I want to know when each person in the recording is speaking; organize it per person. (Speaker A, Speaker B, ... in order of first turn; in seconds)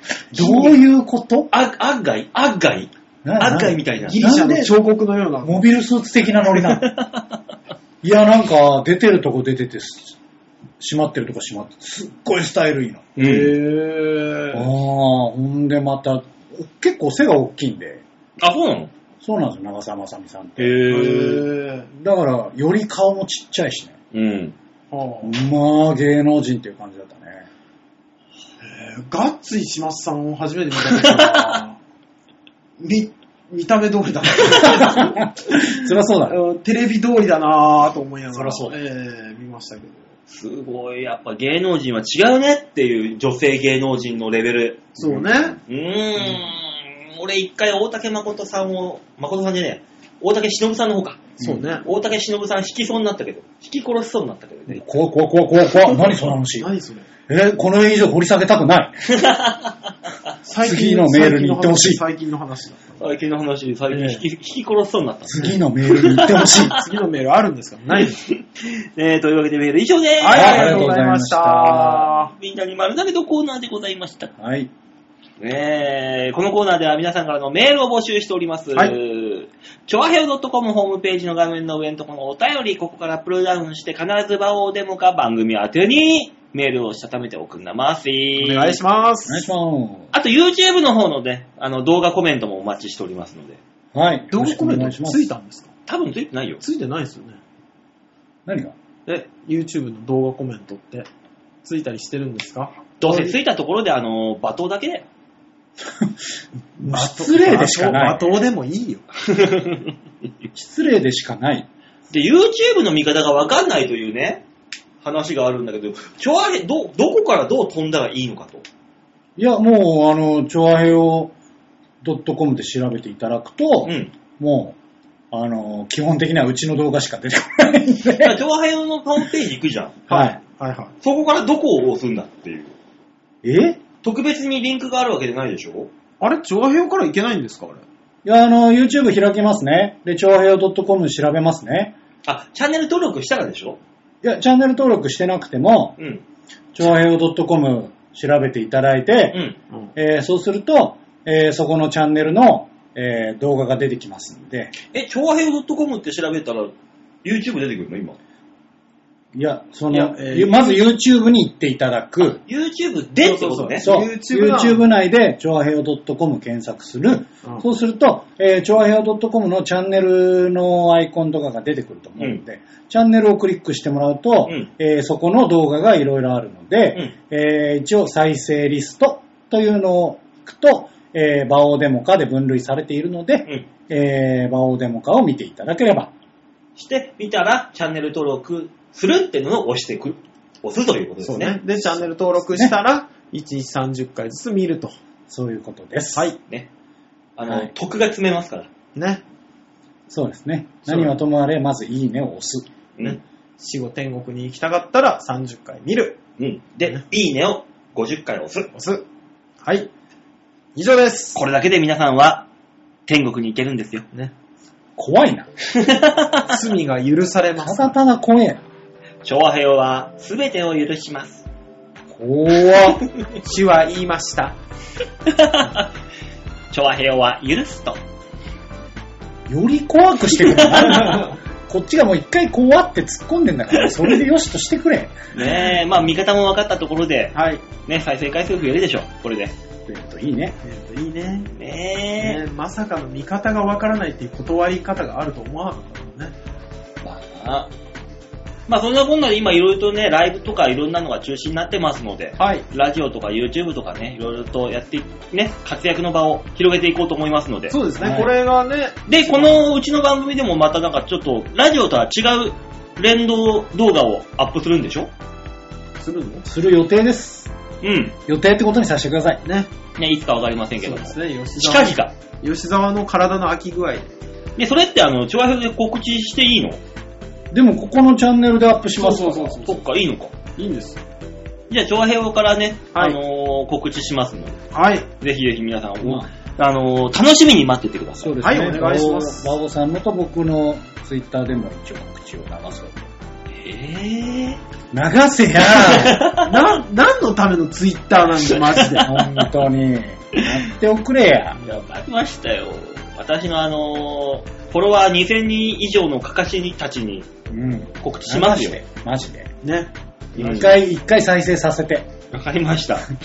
Speaker A: 0.3-1.5, 3.2-4.7, 5.4-6.9, 8.0-10.2, 10.8-13.2, 14.5-18.0, 19.2-21.0, 21.9-24.0, 25.2-27.5, 34.6-36.4, 38.3-38.8, 54.7-56.7, 57.3-59.0, 60.6-62.0, 65.3-66.8, 70.3-72.1, 74.4-74.7, 89.3-90.1, 93.9-95.3, 98.5-98.8, 105.8-106.3, 106.8-108.3, 110.5-111.7, 119.4-121.3, 122.0-124.8, 125.3-128.4, 130.1-130.4, 133.4-133.8, 138.2-141.9, 144.2-146.0, 146.8-149.4, 149.9-154.7, 159.3-162.4, 163.8-186.1, 195.3-196.3, 200.1-202.7, 215.0-215.5, 217.6-218.6, 222.1-223.0, 229.5-235.2, 239.9-240.6, 258.0-258.3, 266.5-267.5, 268.3-269.4, 277.5-279.6, 288.2-293.1, 294.9-296.3, 299.0-301.8, 307.5-309.5, 310.4-312.1
Speaker B: 0.4-0.7, 4.0-5.6, 13.2-14.7, 20.9-21.9, 24.9-25.4, 28.6-31.8, 32.8-35.6, 36.3-40.1, 45.0-45.6, 51.4-51.9, 56.6-57.1, 60.4-63.0, 63.9-64.2, 66.6-68.2, 70.2-72.3, 88.4-89.5, 94.3-95.7, 96.6-97.4, 99.1-101.1, 101.6-103.4, 106.8-109.0, 130.1-130.9, 136.2-137.8, 159.9-160.9, 163.2-164.9, 191.2-195.0, 198.9-199.2, 200.9-201.1, 203.0-206.2, 208.7-209.1, 209.6-209.9, 210.8-211.4, 216.5-218.0, 223.4-224.6, 230.9-231.4, 237.3-237.7, 240.6-241.5, 242.2-246.4, 252.4-252.7, 257.7-259.6, 266.0-266.5, 269.4-269.7, 270.8-274.1, 279.0-279.8, 280.6-281.0, 284.7-285.1, 288.4-289.6, 296.4-299.1, 309.6-309.9
Speaker C: 1.5-4.2, 6.7-7.1, 13.2-13.6, 18.4-18.9, 20.6-21.5, 24.1-24.6, 30.9-31.6, 40.3-54.8, 56.0-56.4, 59.1-59.8, 63.0-66.7, 68.3-71.0, 72.2-74.3, 75.4-88.8, 90.1-93.6, 95.9-96.6, 103.0-105.1, 109.3-109.9, 112.1-114.4, 115.0-118.7, 123.8-124.1, 128.2-130.0, 131.0-132.8, 134.0-135.9, 142.2-143.8, 146.0-146.2, 149.3-149.6, 154.9-156.7, 157.2-158.2, 162.4-163.9, 186.8-191.6, 196.4-196.7, 197.4-198.7, 206.4-208.7, 211.3-212.5, 213.1-214.1, 215.7-216.6, 219.2-221.4, 225.3-225.9, 226.7-228.0, 230.5-231.1, 233.8-234.2, 235.3-239.6, 241.6-242.4, 247.0-247.7, 248.7-257.8, 259.1-265.1, 267.8-268.1, 270.0-272.1, 274.6-276.8, 279.6-280.3, 281.7-284.6, 285.2-288.4, 293.5-294.6, 295.7-296.6, 301.6-307.3, 308.0-308.8, 310.4-310.8, 312.3-313.1